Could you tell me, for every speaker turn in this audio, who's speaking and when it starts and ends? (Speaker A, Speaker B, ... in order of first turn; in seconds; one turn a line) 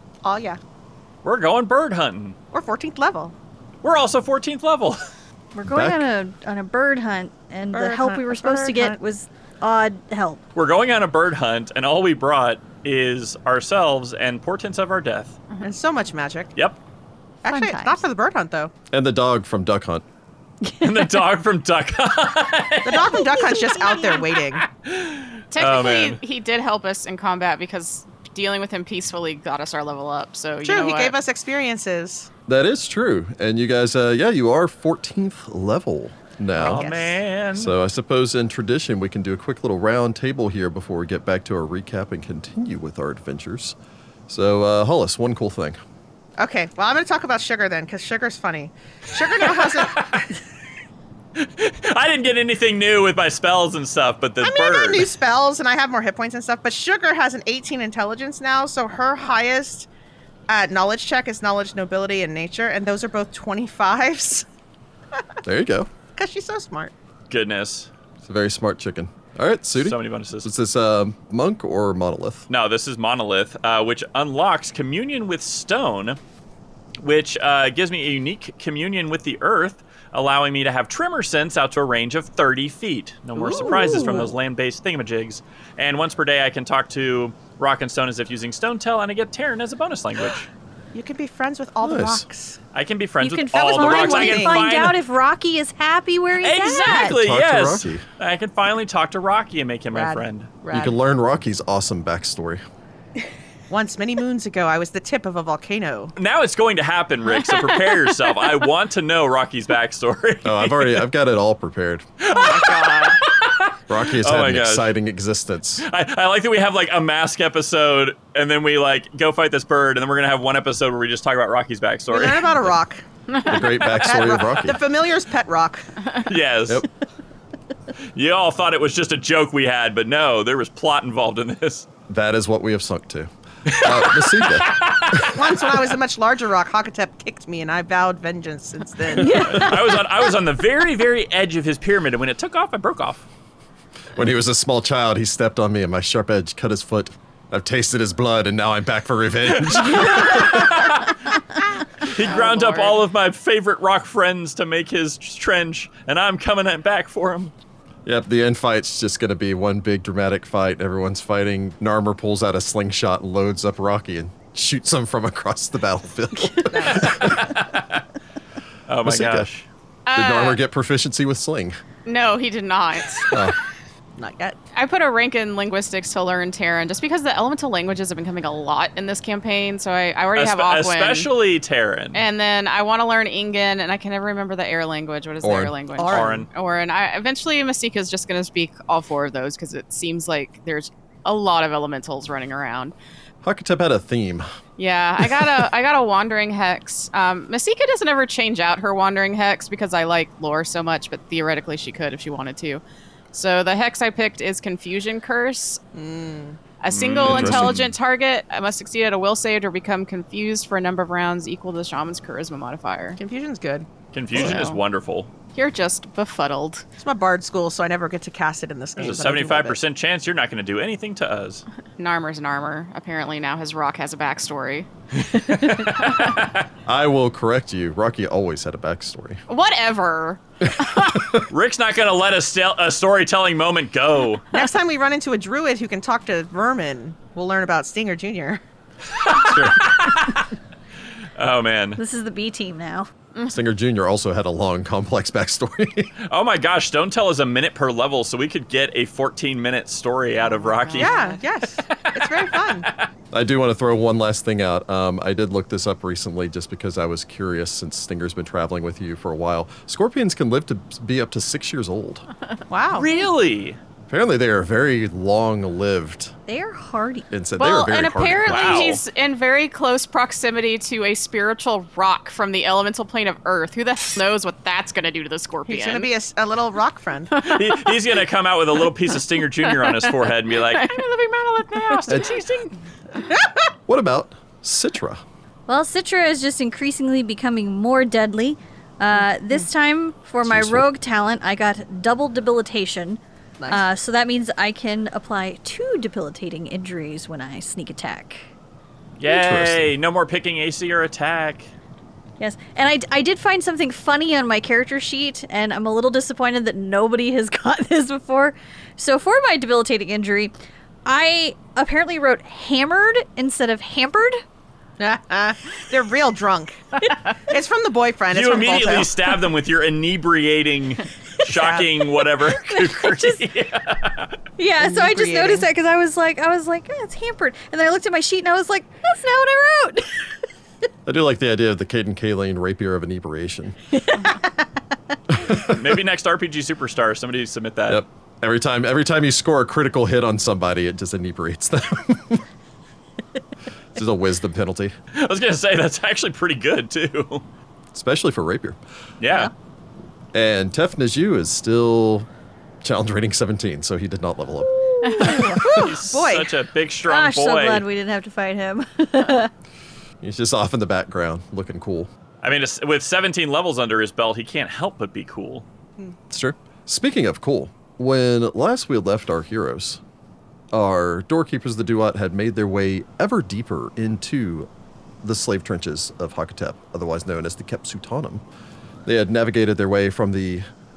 Speaker A: 0.2-0.6
Speaker B: 1.2-2.4
Speaker A: 2.5-3.4
Speaker B: 3.8-5.1
Speaker C: 5.5-10.4
Speaker D: 5.7-6.0
Speaker A: 7.7-9.0
Speaker B: 10.6-15.4
Speaker A: 15.6-16.5
Speaker A: 17.4-18.7
Speaker C: 17.5-18.0
Speaker D: 18.9-20.0
Speaker C: 20.6-21.2
Speaker B: 20.8-23.3
Speaker A: 22.8-24.6
Speaker C: 23.2-24.2
Speaker B: 24.8-26.2
Speaker E: 25.5-31.2
Speaker A: 30.6-32.3
Speaker D: 32.5-36.9
Speaker A: 36.6-37.2
Speaker B: 36.6-37.7
Speaker D: 37.5-43.8
Speaker D: 44.3-45.8
Speaker A: 46.4-50.3
Speaker B: 49.4-50.2
Speaker B: 51.4-55.1
Speaker A: 54.4-59.9
Speaker A: 60.5-64.5
Speaker D: 65.4-65.9
Speaker A: 66.2-66.9
Speaker B: 67.3-67.9
Speaker D: 68.2-72.5
Speaker B: 69.7-70.5
Speaker B: 72.5-76.2
Speaker B: 77.0-90.5
Speaker A: 83.4-84.3
Speaker D: 83.7-84.2
Speaker A: 90.9-92.6
Speaker D: 91.8-92.2
Speaker B: 92.7-95.0
Speaker C: 93.2-97.2
Speaker A: 93.5-94.7
Speaker B: 96.4-100.5
Speaker D: 96.9-98.0
Speaker A: 99.9-101.0
Speaker D: 100.7-102.6
Speaker A: 103.7-106.1
Speaker B: 106.2-111.0
Speaker E: 107.5-108.1
Speaker D: 110.4-112.1
Speaker B: 112.2-115.0
Speaker A: 112.5-112.8
Speaker E: 112.5-113.1
Speaker D: 113.9-115.8
Speaker B: 115.8-122.7
Speaker A: 122.1-123.0
Speaker E: 123.3-123.6
Speaker D: 123.4-124.8
Speaker A: 123.9-125.9
Speaker B: 126.2-126.8
Speaker B: 128.2-131.9
Speaker D: 132.1-135.2
Speaker B: 133.7-135.4
Speaker A: 135.2-139.7
Speaker C: 139.1-140.3
Speaker B: 139.4-143.2
Speaker D: 144.2-150.8
Speaker B: 149.7-151.2
Speaker B: 152.0-157.5
Speaker E: 152.1-153.0
Speaker D: 158.1-167.4
Speaker A: 166.7-167.4
Speaker B: 167.1-168.0
Speaker B: 168.9-169.7
Speaker D: 169.0-169.5
Speaker E: 170.1-170.6
Speaker D: 170.1-171.8
Speaker E: 172.1-173.4
Speaker A: 174.2-174.6
Speaker E: 174.7-181.3
Speaker B: 180.3-182.2
Speaker E: 182.1-192.9
Speaker D: 185.4-185.8
Speaker A: 186.0-186.5
Speaker B: 186.1-186.5
Speaker D: 193.4-194.5
Speaker E: 194.8-205.8
Speaker D: 195.2-195.5
Speaker A: 205.9-206.6
Speaker E: 206.8-213.2
Speaker B: 206.9-207.8
Speaker D: 207.2-207.9
Speaker A: 213.2-214.6
Speaker B: 214.1-215.3
Speaker E: 214.3-214.8
Speaker E: 215.5-216.8
Speaker A: 217.0-219.8
Speaker B: 219.0-221.7
Speaker E: 222.0-224.9
Speaker B: 225.2-226.6
Speaker D: 226.9-229.4
Speaker E: 229.5-231.2
Speaker D: 231.1-231.5
Speaker B: 231.5-234.5
Speaker A: 234.5-238.6
Speaker B: 239.2-240.5
Speaker B: 241.4-242.0
Speaker C: 242.0-243.1
Speaker D: 243.5-246.1
Speaker B: 246.2-251.2
Speaker E: 250.4-251.4
Speaker A: 251.0-252.9
Speaker B: 251.9-253.1
Speaker D: 253.3-262.3
Speaker A: 262.7-263.1
Speaker B: 262.9-263.8
Speaker D: 264.1-266.4
Speaker C: 266.5-267.3
Speaker D: 267.3-269.0
Speaker E: 267.6-276.1
Speaker B: 268.2-269.0
Speaker A: 275.7-277.4
Speaker B: 277.4-282.7
Speaker E: 277.4-277.7
Speaker E: 279.8-281.1
Speaker E: 281.6-282.2
Speaker A: 283.3-283.7
Speaker D: 283.9-285.2
Speaker C: 285.7-298.5
Speaker D: 290.4-290.9
Speaker B: 299.2-301.7
Speaker D: 299.3-299.9
Speaker C: 302.4-314.4
Speaker A: 315.0-319.1
Speaker B: 318.3-324.3
Speaker A: 321.5-321.9
Speaker C: 322.6-323.4
Speaker C: 324.6-330.2
Speaker A: 324.8-325.7
Speaker D: 331.1-333.8
Speaker C: 333.9-334.5
Speaker D: 335.3-336.0
Speaker B: 335.5-338.0
Speaker D: 337.9-342.4
Speaker D: 343.9-345.0
Speaker B: 345.1-347.4
Speaker D: 347.9-348.8
Speaker B: 349.2-349.5
Speaker D: 350.3-352.3
Speaker D: 352.8-355.3
Speaker A: 355.1-356.5
Speaker E: 355.1-355.4
Speaker B: 355.4-357.8
Speaker C: 357.1-359.5
Speaker D: 360.2-362.1
Speaker B: 362.4-365.6
Speaker D: 366.3-370.0
Speaker D: 370.7-374.7
Speaker D: 375.2-378.4
Speaker D: 379.1-380.7